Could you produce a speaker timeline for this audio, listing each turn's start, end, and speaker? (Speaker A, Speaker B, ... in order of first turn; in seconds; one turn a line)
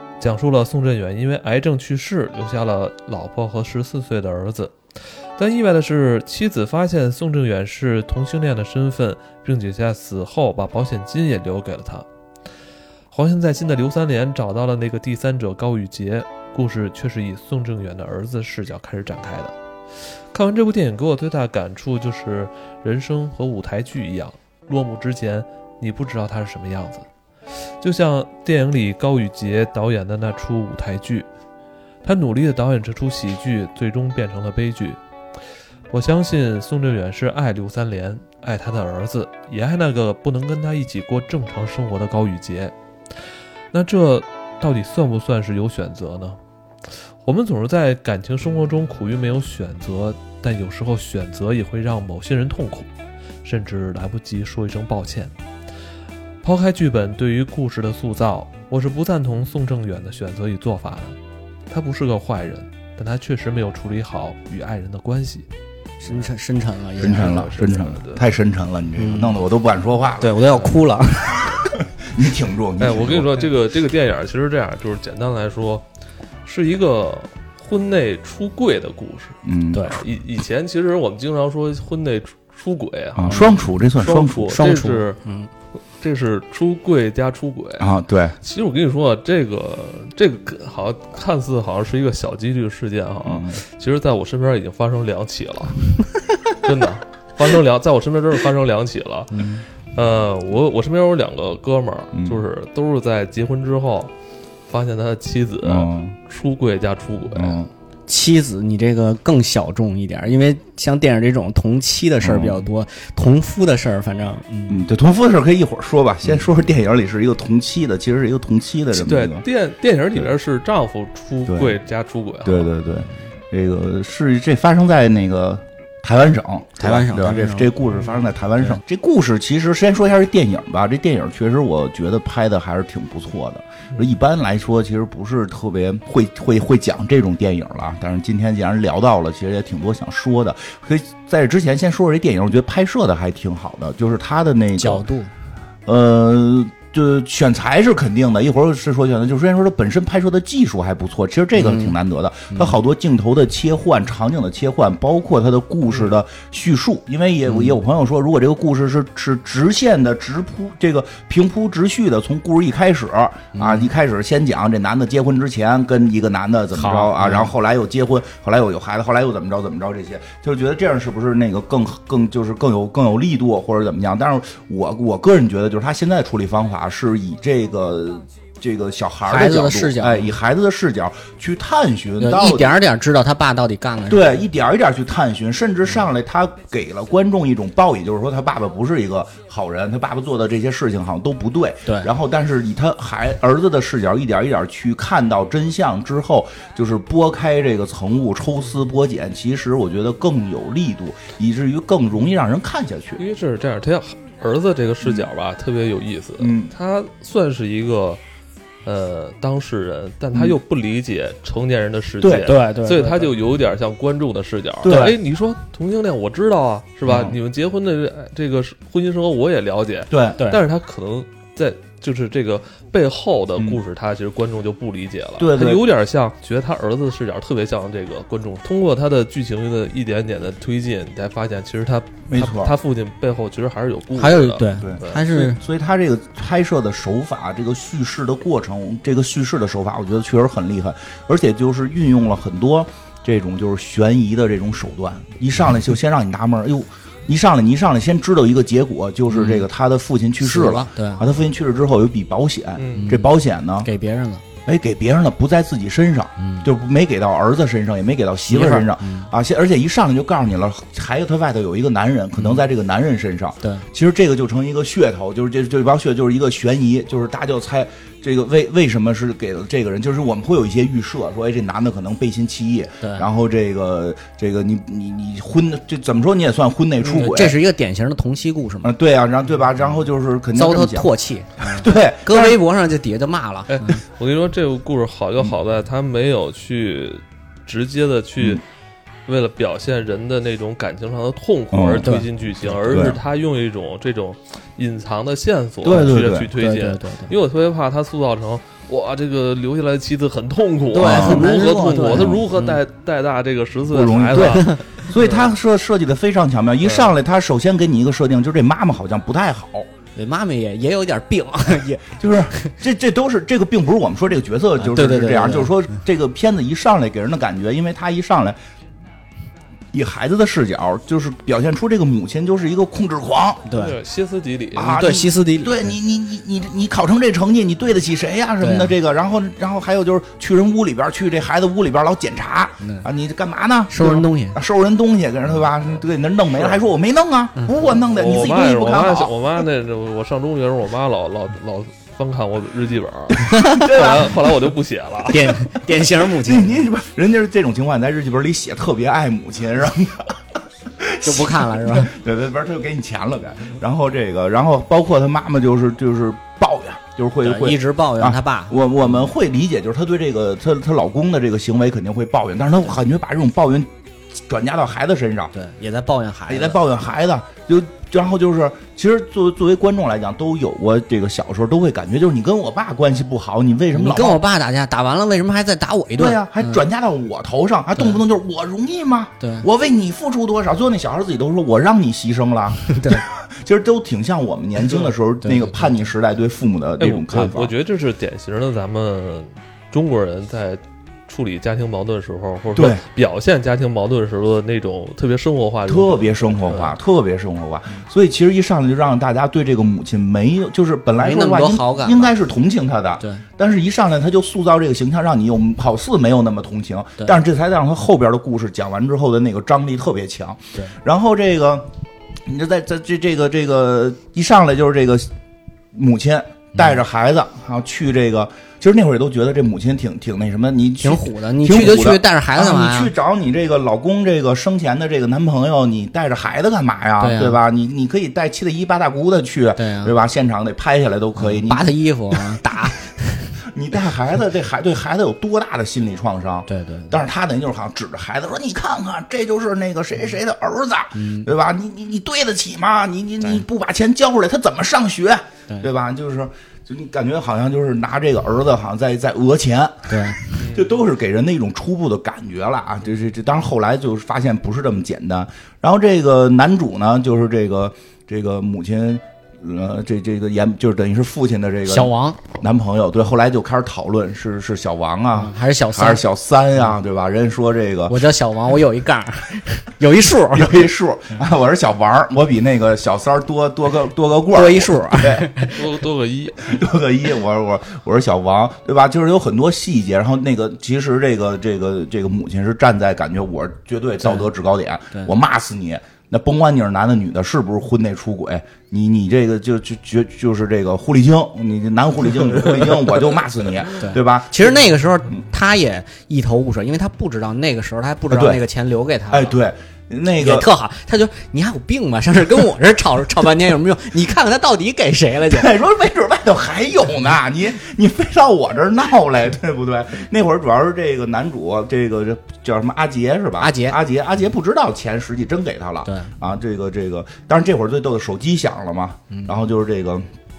Speaker A: 0.2-4.8
Speaker A: 5.4-12.1
Speaker A: 13.1-19.5
Speaker A: 20.3-27.1
Speaker A: 27.8-31.3
Speaker A: 32.0-35.0
Speaker A: 35.9-42.7
Speaker A: 43.7-46.4
Speaker A: 47.2-52.9
Speaker A: 53.4-55.3
Speaker A: 56.4-61.1
Speaker A: 61.7-65.5
Speaker B: 66.0-67.5
Speaker C: 67.0-70.6
Speaker A: 67.0-68.2
Speaker B: 69.0-69.4
Speaker B: 70.2-71.7
Speaker C: 71.5-73.4
Speaker A: 72.8-75.8
Speaker A: 76.4-85.2
Speaker C: 79.4-80.0
Speaker B: 79.7-80.0
Speaker C: 83.2-84.6
Speaker B: 83.3-83.5
Speaker B: 84.4-85.5
Speaker A: 86.0-104.1
Speaker C: 87.8-88.3
Speaker C: 93.2-93.6
Speaker C: 102.1-102.4
Speaker A: 104.7-107.6
Speaker C: 105.6-106.2
Speaker C: 107.3-107.7
Speaker B: 108.1-114.8
Speaker C: 112.2-112.7
Speaker C: 114.7-119.5
Speaker A: 118.9-122.7
Speaker C: 121.5-121.8
Speaker C: 122.4-145.0
Speaker B: 126.8-127.7
Speaker B: 144.8-145.3
Speaker C: 145.9-182.8
Speaker B: 151.6-151.9
Speaker B: 157.5-157.8
Speaker B: 163.5-163.9
Speaker B: 166.7-167.5
Speaker B: 179.3-180.3
Speaker B: 182.2-184.4
Speaker C: 184.1-203.2
Speaker A: 203.2-208.2
Speaker C: 205.0-205.3
Speaker C: 206.4-206.7
Speaker A: 208.8-235.4
Speaker C: 212.2-212.5
Speaker B: 212.4-213.3
Speaker C: 214.8-215.2
Speaker B: 214.8-215.2
Speaker C: 217.0-217.4
Speaker C: 220.1-220.4
Speaker C: 225.4-225.8
Speaker C: 232.3-232.8
Speaker B: 234.1-235.6
Speaker C: 234.8-253.9
Speaker B: 249.3-249.6
Speaker B: 250.4-251.2
Speaker A: 252.8-253.1
Speaker B: 253.0-254.4
Speaker C: 254.7-277.6
Speaker B: 256.4-256.7
Speaker B: 258.5-259.3
Speaker A: 277.0-277.4
Speaker B: 277.2-278.9
Speaker C: 278.8-282.6
Speaker B: 280.5-283.9
Speaker A: 283.7-288.6
Speaker A: 289.2-305.5
Speaker C: 291.7-293.2
Speaker B: 292.0-292.3
Speaker C: 295.8-296.5
Speaker B: 295.9-297.3
Speaker B: 300.9-302.8
Speaker C: 301.0-301.5
Speaker C: 302.1-302.4
Speaker C: 303.9-309.9
Speaker A: 306.8-307.1
Speaker B: 310.1-312.7
Speaker C: 312.0-318.6
Speaker B: 314.8-315.7
Speaker C: 319.9-323.7
Speaker B: 323.7-323.9
Speaker A: 323.7-325.0
Speaker C: 324.7-339.3
Speaker B: 324.8-325.9
Speaker B: 328.6-328.9
Speaker B: 332.8-333.1
Speaker B: 333.9-334.6
Speaker A: 338.1-345.5
Speaker B: 343.5-343.9
Speaker C: 343.6-344.6
Speaker B: 345.3-346.8
Speaker C: 346.0-350.4
Speaker C: 350.9-365.5
Speaker B: 351.2-352.1
Speaker B: 357.4-358.7
Speaker B: 365.5-366.8
Speaker C: 366.5-374.4
Speaker B: 373.9-376.8
Speaker C: 376.1-387.7
Speaker B: 379.4-379.7
Speaker B: 382.9-383.2
Speaker B: 385.4-385.9
Speaker A: 387.0-396.9
Speaker C: 392.7-393.0
Speaker C: 395.9-411.9
Speaker B: 401.2-402.3
Speaker B: 403.2-403.4
Speaker C: 412.4-415.3
Speaker C: 415.9-432.9
Speaker B: 421.0-423.1
Speaker B: 427.2-427.6
Speaker B: 429.8-430.1
Speaker B: 431.4-433.5
Speaker C: 433.6-468.2
Speaker B: 436.7-437.1
Speaker B: 441.1-441.5
Speaker B: 450.1-450.5
Speaker A: 450.6-450.9
Speaker B: 461.9-462.5
Speaker B: 465.3-466.2
Speaker B: 468.1-470.9
Speaker C: 470.5-475.5
Speaker B: 474.5-475.8
Speaker A: 475.7-476.8
Speaker C: 476.6-494.8
Speaker B: 484.2-484.5
Speaker B: 493.9-499.6
Speaker C: 498.3-498.6
Speaker C: 499.3-500.7
Speaker B: 500.3-505.7
Speaker C: 505.5-520.3
Speaker B: 513.6-514.0
Speaker B: 516.0-516.3